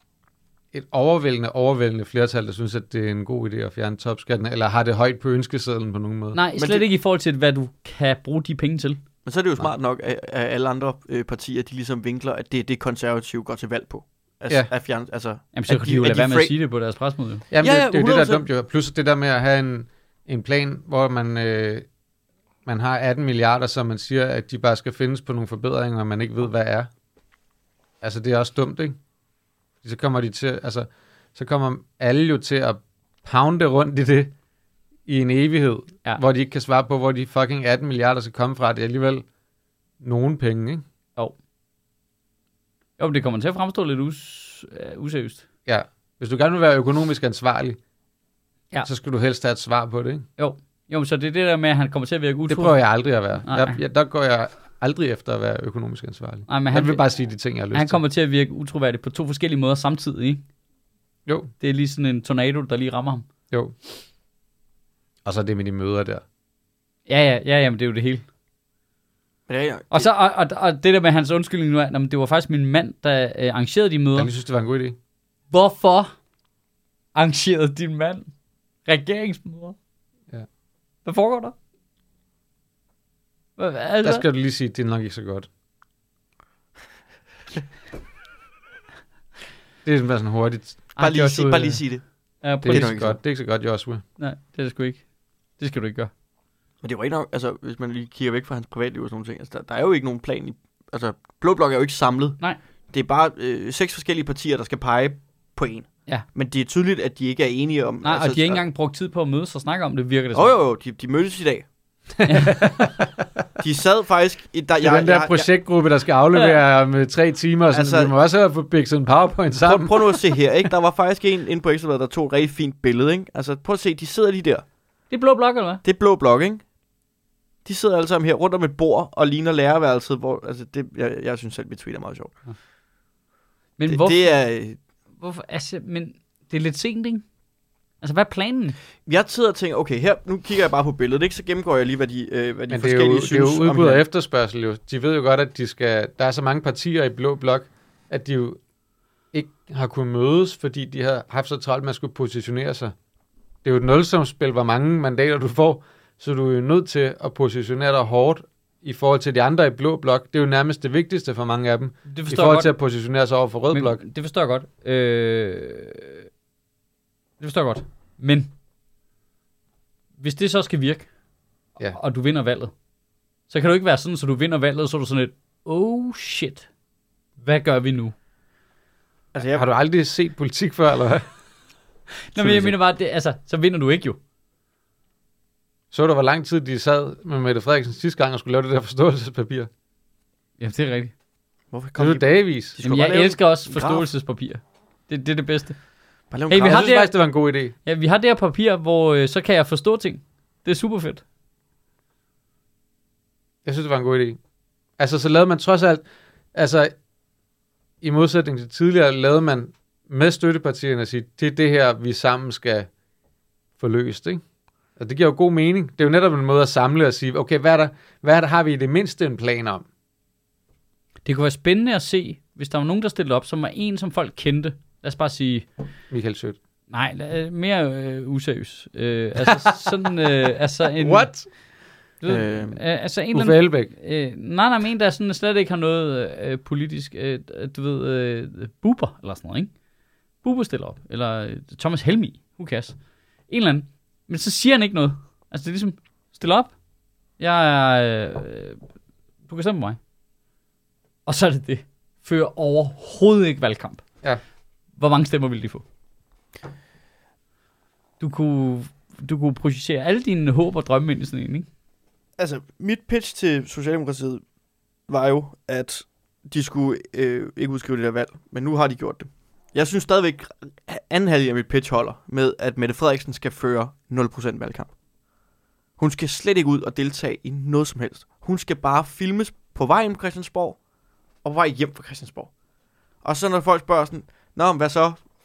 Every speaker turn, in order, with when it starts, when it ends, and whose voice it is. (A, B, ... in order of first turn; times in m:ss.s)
0:00.7-0:06.4 A
0:06.3-0:09.0 B
0:06.6-0:06.8 C
0:09.2-0:16.5 C
0:15.5-0:17.4 B
0:17.5-0:21.8 A
0:17.6-0:18.5 C
0:22.6-0:26.9 A
0:28.0-0:29.0 A
0:29.8-0:34.3 A
0:35.1-0:39.3 A
0:40.0-0:40.8 A
0:43.0-0:45.4 B
0:45.6-0:47.8 A
0:48.8-0:50.2 A
0:50.4-0:52.8 B
0:52.5-0:58.0 A
0:53.4-0:53.8 B
0:56.5-0:57.0 B
0:57.7-1:00.4 B
1:01.2-1:01.5 A
1:01.6-1:03.2 B
1:05.2-1:06.2 A
1:07.1-1:08.2 B
1:09.5-1:10.1 C
1:09.9-1:14.3 B
1:14.2-1:15.0 A
1:15.5-1:16.1 B
1:17.1-1:18.3 B
1:18.8-1:19.8 B
1:21.0-1:21.5 B
1:23.6-1:24.2 B
1:24.0-1:25.5 A
1:29.8-1:30.8 A
1:31.0-1:31.8 B
1:31.0-1:32.0 C
1:32.4-1:32.9 B
1:32.6-1:33.2 C
1:32.6-1:34.0 A
1:34.2-1:35.0 B
1:35.6-1:36.1 B
1:36.8-1:42.4 C
1:42.9-1:48.6 C
1:48.0-1:50.6 B
1:50.3-1:51.6 C
1:52.2-1:52.6 B
1:52.4-1:53.0 A
1:53.6-1:55.5 C
1:54.8-2:00.2 A
1:56.3-1:56.6 B
1:57.7-1:58.1 C
1:59.6-2:04.6 C
2:05.1-2:05.8 B
2:05.8-2:06.6 C
2:07.6-2:12.4 C
2:13.8-2:14.3 B
2:13.9-2:14.8 C
2:15.2-2:17.2 B
2:18.0-2:18.8 B
2:19.0-2:24.0 C
2:22.7-2:28.6 A
2:29.3-2:32.9 A
2:33.6-2:44.0 A
2:42.1-2:42.7 B
2:43.7-2:46.2 B
2:47.4-2:48.5 B
2:50.2-2:51.1 B
2:51.9-2:52.7 B
2:53.5-2:56.7 B
2:57.4-2:58.1 B
2:59.3-2:59.7 C
2:59.5-3:01.2 A
3:02.3-3:04.2 B
3:02.4-3:02.7 A
3:05.9-3:09.7 A
3:10.6-3:11.1 B
3:11.7-3:14.0 C
3:12.0-3:12.8 A
3:12.8-3:15.8 B
3:16.3-3:16.9 C
3:16.5-3:17.1 B
3:16.6-3:17.7 A
3:17.8-3:21.2 B
3:23.6-3:24.4 A
3:25.0-3:26.9 A
3:28.0-3:32.9 A
3:33.8-3:34.4 A
3:35.0-3:39.8 A
3:41.2-3:45.7 B
3:46.1-3:46.6 A
3:46.9-3:51.5 B
3:51.0-3:51.5 A
3:52.2-3:59.7 B
3:52.2-3:52.8 C
3:53.3-3:53.9 A
4:00.4-4:03.0 B
4:03.5-4:06.7 B
4:07.4-4:08.8 B
4:09.5-4:10.0 B
4:11.2-4:14.0 B
4:15.0-4:15.8 B
4:18.2-4:21.7 B
4:22.4-4:24.4 C
4:25.1-4:34.9 C
4:36.0-4:40.8 C
4:41.4-4:42.5 C
4:43.2-4:45.2 C